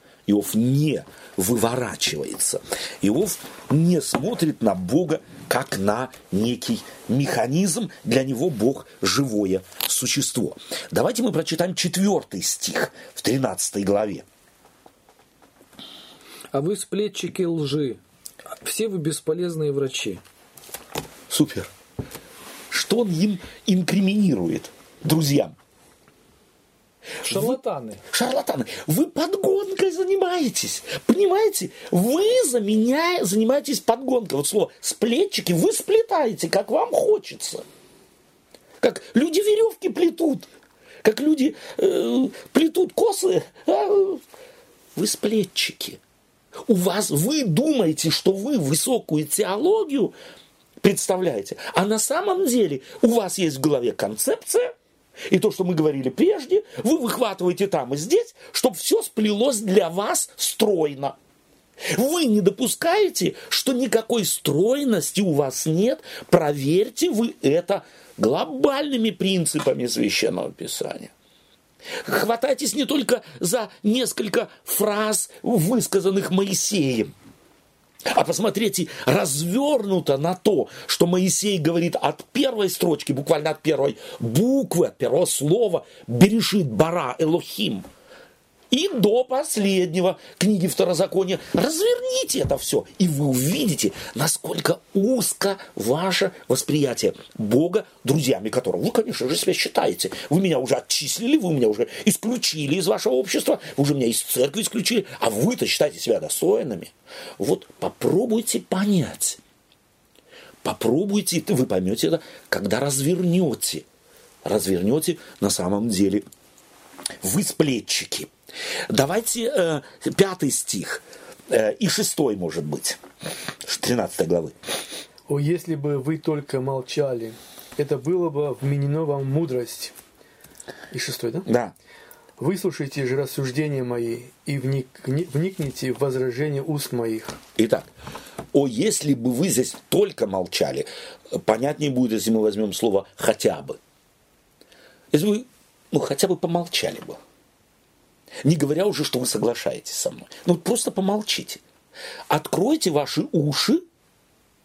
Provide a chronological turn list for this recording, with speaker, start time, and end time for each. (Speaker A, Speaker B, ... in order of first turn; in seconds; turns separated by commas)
Speaker A: 0.3-14.2, Speaker B: 16.5-18.0, Speaker B: 18.6-20.2, Speaker A: 21.3-21.7, Speaker A: 22.7-25.5, Speaker A: 27.2-27.6, Speaker B: 27.2-28.0, Speaker A: 28.1-37.6, Speaker A: 38.8-40.5, Speaker A: 41.0-44.2, Speaker A: 45.0-46.0, Speaker A: 46.7-50.1, Speaker A: 50.8-54.7, Speaker A: 55.3-61.2, Speaker A: 61.9-71.1, Speaker A: 72.0-77.1, Speaker A: 78.1-87.9, Speaker A: 88.7-109.4, Speaker A: 110.6-113.8, Speaker A: 114.5-116.2, Speaker A: 117.2-118.3, Speaker A: 118.9-123.0, Speaker A: 123.6-124.5, Speaker C: 125.3-129.9, Speaker C: 130.9-131.5, Speaker A: 131.5-131.7, Speaker C: 132.4-137.4, Speaker A: 137.6-137.9, Speaker A: 138.5-143.8, Speaker A: 145.1-147.2, Speaker A: 148.4-151.6, Speaker A: 152.3-153.8